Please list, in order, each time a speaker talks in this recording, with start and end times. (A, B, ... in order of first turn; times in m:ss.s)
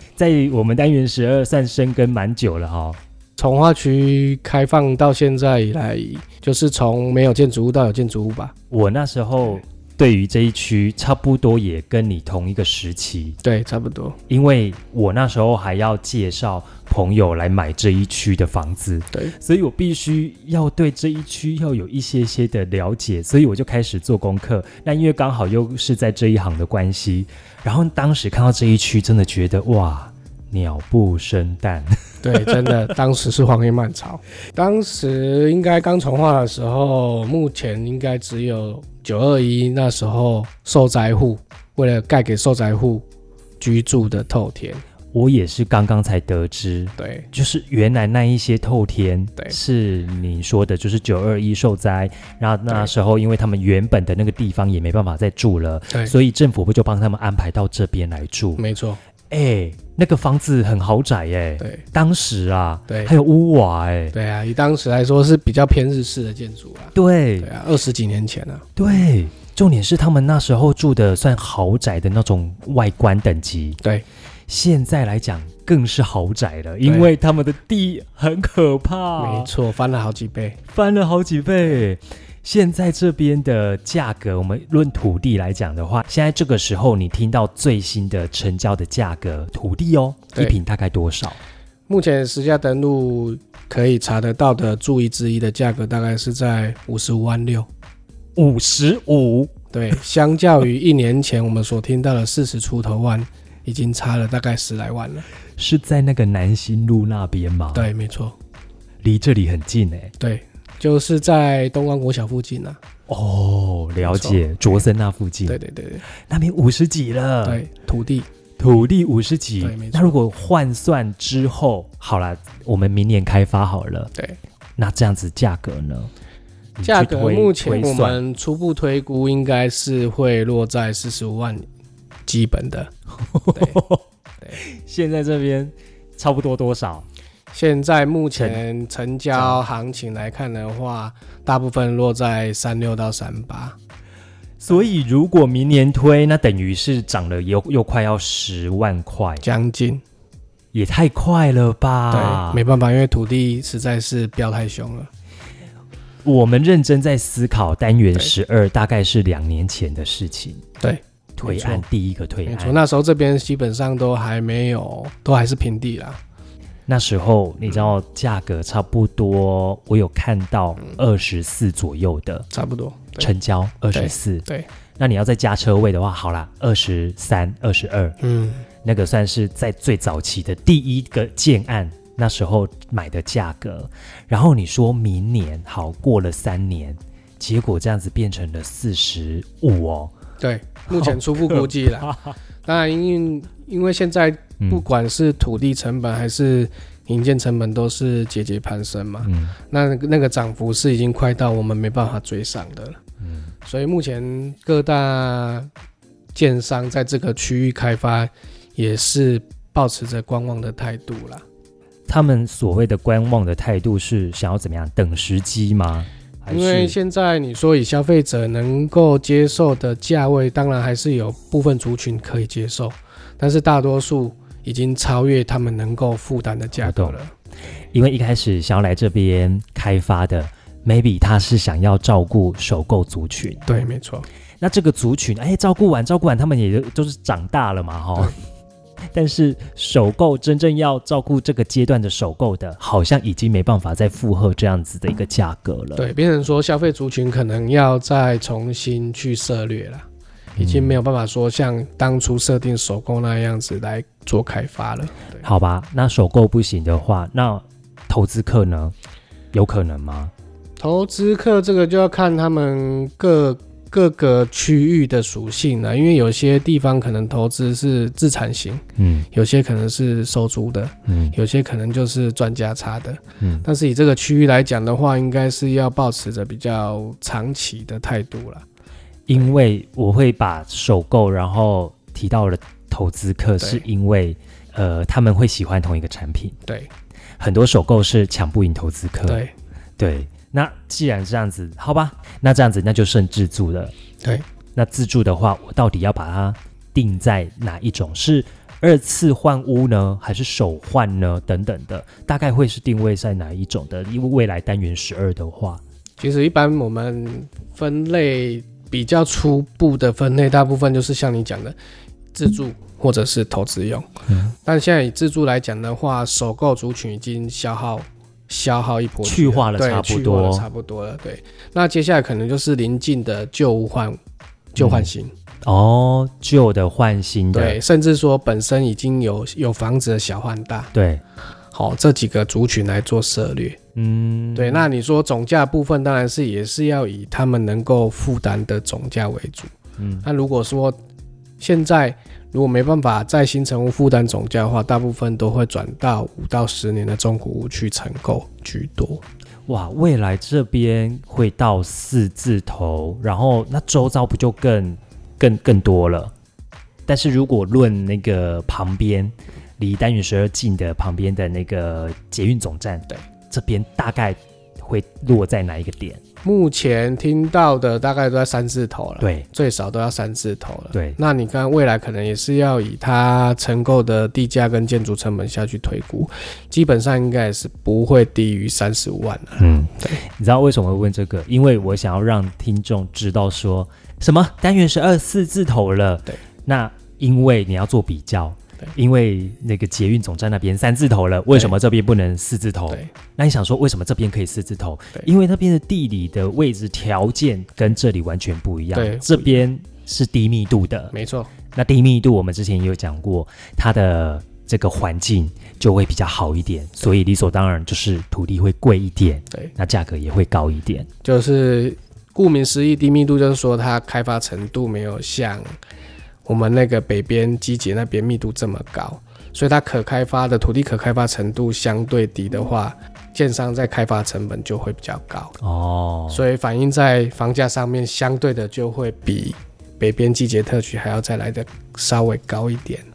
0:00.1-0:03.0 A
0:03.4-0:08.5 B
0:08.7-0:13.4 A
0:13.4-0:14.2 B
0:14.3-0:32.8 A
0:32.2-0:43.0 B
0:43.6-0:44.8 B
0:45.1-0:58.6 A
0:47.0-0:47.3 B
0:58.6-0:59.0 B
0:59.3-1:04.1 A
1:02.9-1:03.1 B
1:04.1-1:08.7 B
1:06.9-1:07.5 A
1:08.8-1:13.8 A
1:14.5-1:19.5 A
1:19.2-1:20.6 B
1:20.7-1:31.4 A
1:31.9-1:37.7 B
1:38.4-1:39.5 A
1:39.7-1:45.2 B
1:45.6-1:47.9 A
1:47.7-1:48.4 B
1:49.0-1:50.1 A
1:50.2-1:52.8 B
1:53.1-1:55.6 A
1:54.0-1:54.8 B
1:55.5-1:56.0 B
1:56.1-1:57.6 A
1:57.4-1:58.3 B
1:58.6-2:04.1 A
1:59.6-2:00.2 B
2:04.8-2:06.1 A
2:06.8-2:08.2 A
2:06.8-2:11.6 B
2:12.2-2:12.9 B
2:13.3-2:17.0 A
2:13.5-2:13.8 B
2:17.5-2:23.8 B
2:18.3-2:18.6 A
2:19.3-2:19.6 A
2:24.6-2:29.4 A
2:29.4-2:30.0 B
2:30.7-2:32.6 A
2:32.1-2:35.1 B
2:36.2-2:40.6 A
2:40.8-2:41.8 B
2:41.4-2:42.8 A
2:42.4-2:46.2 B
2:46.9-2:52.4 A
2:52.5-2:53.3 B
2:53.2-2:54.4 A
2:53.9-2:54.7 B
2:55.0-2:58.2 A
2:58.2-2:58.6 B
2:58.8-3:10.1 A
3:10.4-3:12.1 B
3:10.9-3:12.4 A
3:12.6-3:23.0 B
3:14.6-3:14.8 A
3:19.2-3:19.6 A
3:23.2-3:23.5 A
3:23.6-3:25.7 B
3:26.3-3:31.4 B
3:32.1-3:37.0 A
3:36.5-3:47.3 B
3:46.8-3:47.2 A
3:47.9-3:53.6 A
3:53.7-3:54.3 B
3:54.6-3:58.4 A
3:59.1-4:06.1 A
4:06.0-4:10.0 B
4:10.6-4:11.0 A
4:10.6-4:15.4 B
4:15.4-4:18.9 A
4:19.5-4:20.3 A
4:20.8-4:38.6 B
4:29.0-4:29.3 A
4:31.1-4:31.4 A
4:33.4-4:33.6 A
4:39.3-4:46.6 A
4:43.6-4:43.8 B
4:47.4-4:49.4 A
4:49.3-4:49.5 B
4:50.0-4:53.9 A
4:54.7-5:05.8 A
5:06.2-5:11.8 B
5:12.3-5:14.1 B
5:14.3-5:14.5 A
5:14.6-5:24.2 B
5:19.2-5:20.7 A
5:24.7-5:25.3 B
5:24.8-5:25.1 A
5:25.6-5:27.8 A
5:27.5-5:30.9 B
5:30.9-5:31.2 A
5:31.7-5:33.8 B
5:34.0-5:34.9 A
5:34.5-5:39.7 B
5:40.0-5:40.2 A
5:40.2-5:41.0 B
5:41.6-5:49.2 B
5:49.7-5:56.3 A
5:57.1-6:06.2 A
6:06.4-6:20.2 B
6:09.2-6:09.5 A
6:10.9-6:11.2 A
6:19.6-6:41.1 A
6:38.9-6:39.6 B
6:41.1-6:41.5 B
6:41.7-6:51.1 A
6:51.2-6:55.7 B
6:56.4-7:05.6 B
7:05.6-7:06.4 A
7:06.3-7:13.0 B